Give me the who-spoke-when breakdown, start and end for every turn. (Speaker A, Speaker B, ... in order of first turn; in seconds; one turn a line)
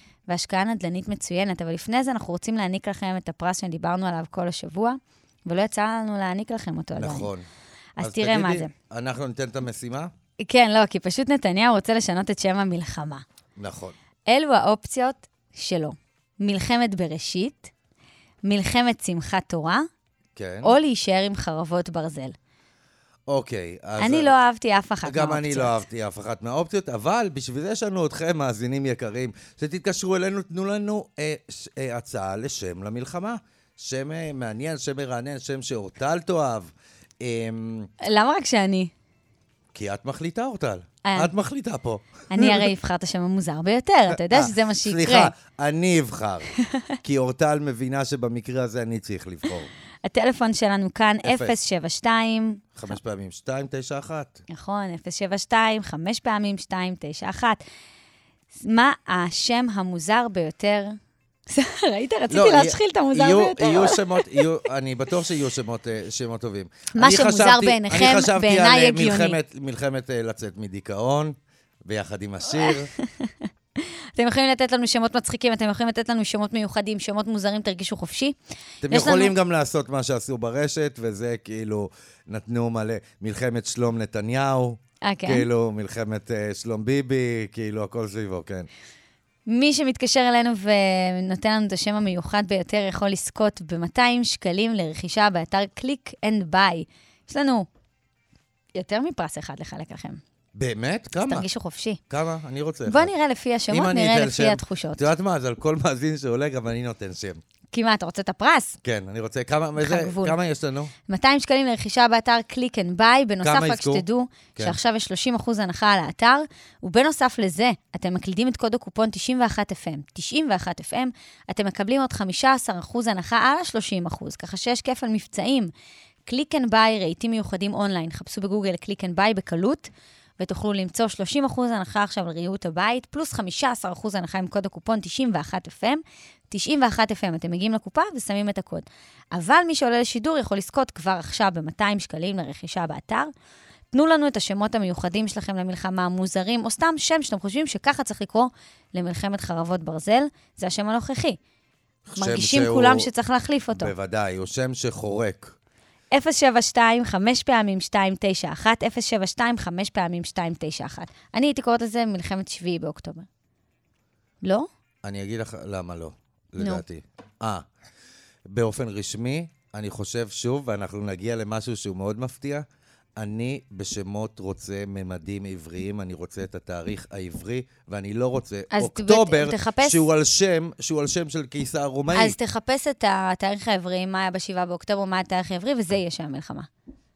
Speaker A: 0.3-7.3
Speaker B: 7.0-7.5
Speaker A: 8.0-8.7
Speaker B: 8.0-10.1
Speaker A: 10.4-13.2
Speaker B: 13.6-13.9
Speaker A: 14.3-17.7
Speaker A: 18.4-19.9
Speaker B: 20.3-20.8
Speaker A: 20.6-22.4
Speaker B: 23.3-24.3
Speaker A: 24.0-25.8
Speaker B: 25.1-37.9
Speaker A: 38.0-38.9
Speaker B: 39.7-42.7
Speaker A: 41.0-41.3
Speaker A: 42.3-45.3
Speaker B: 44.1-46.5
Speaker A: 46.7-46.9
Speaker B: 47.0-49.7
Speaker A: 50.0-52.7
Speaker B: 51.2-51.5
Speaker B: 52.7-54.4
Speaker A: 54.5-57.6
Speaker A: 58.5-61.0
Speaker A: 61.5-64.5
Speaker B: 62.3-72.9
Speaker A: 66.9-69.4
Speaker A: 72.6-79.3
Speaker B: 78.8-88.7
Speaker A: 85.0-85.5
Speaker A: 89.5-97.7
Speaker A: 98.7-100.2
Speaker B: 100.5-101.5
Speaker A: 101.3-102.0
Speaker B: 102.1-103.1
Speaker A: 102.9-105.1
Speaker B: 103.7-107.4
Speaker A: 107.7-108.8
Speaker B: 108.8-110.9
Speaker A: 109.8-110.4
Speaker A: 111.1-125.7
Speaker B: 113.4-114.8
Speaker A: 126.2-143.3
Speaker A: 143.9-151.4
Speaker B: 152.1-153.1
Speaker A: 152.2-153.9
Speaker B: 153.7-155.5
Speaker A: 156.1-163.3
Speaker A: 164.4-164.7
Speaker B: 165.0-167.7
Speaker A: 166.6-166.8
Speaker B: 168.5-172.7
Speaker B: 173.2-182.4
Speaker A: 178.7-180.0
Speaker A: 182.1-186.7